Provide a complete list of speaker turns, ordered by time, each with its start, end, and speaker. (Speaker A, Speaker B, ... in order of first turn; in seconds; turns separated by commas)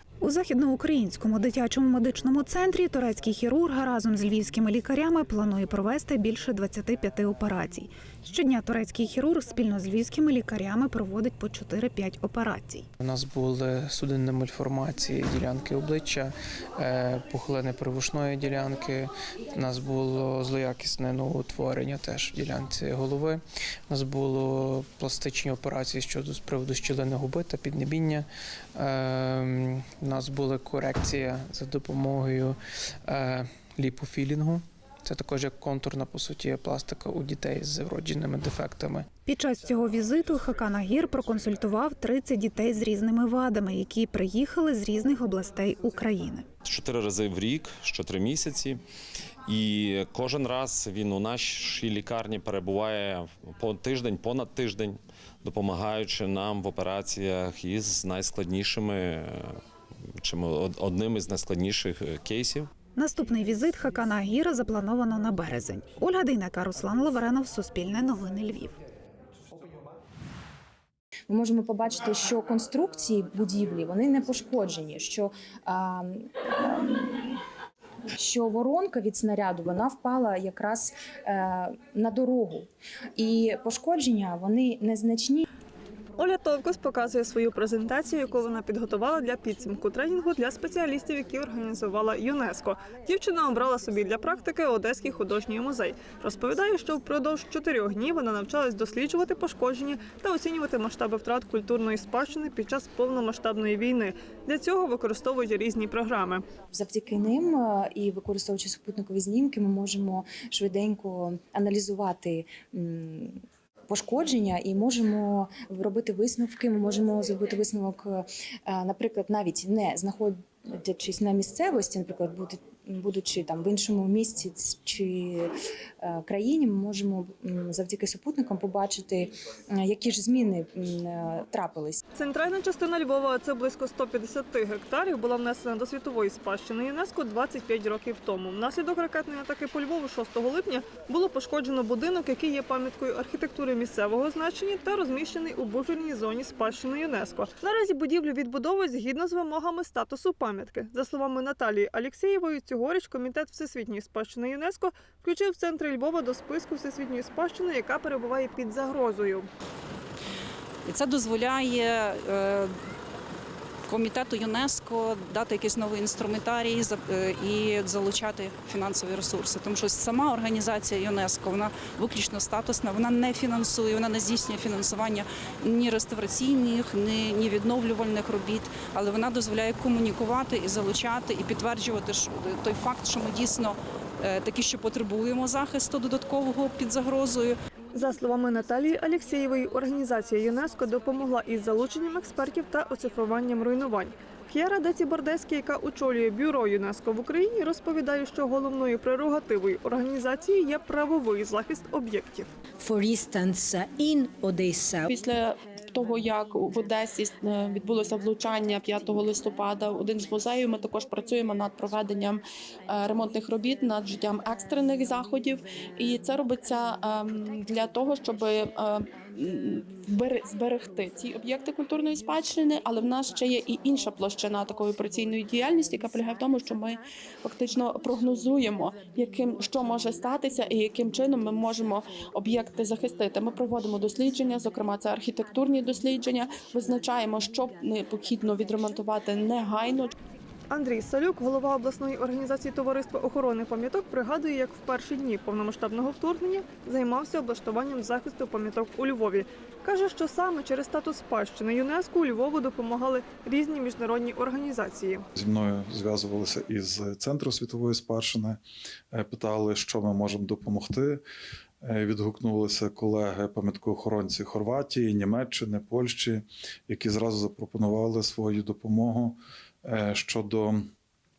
Speaker A: 0.2-12.9, Speaker B: 13.0-39.1, Speaker A: 39.3-46.5, Speaker C: 46.6-48.8, Speaker C: 49.5-59.6, Speaker C: 60.2-62.7, Speaker A: 63.0-68.7, Speaker D: 71.3-77.2, Speaker D: 78.2-85.5, Speaker E: 86.2-106.5, Speaker D: 106.7-125.5, Speaker D: 126.0-132.0, Speaker E: 132.2-159.5, Speaker F: 160.8-162.7, Speaker F: 163.9-187.6, Speaker E: 187.9-202.5, Speaker G: 202.9-205.0, Speaker H: 205.1-240.1, Speaker E: 240.7-255.3, Speaker I: 255.4-258.6, Speaker I: 259.1-261.2, Speaker I: 261.8-270.8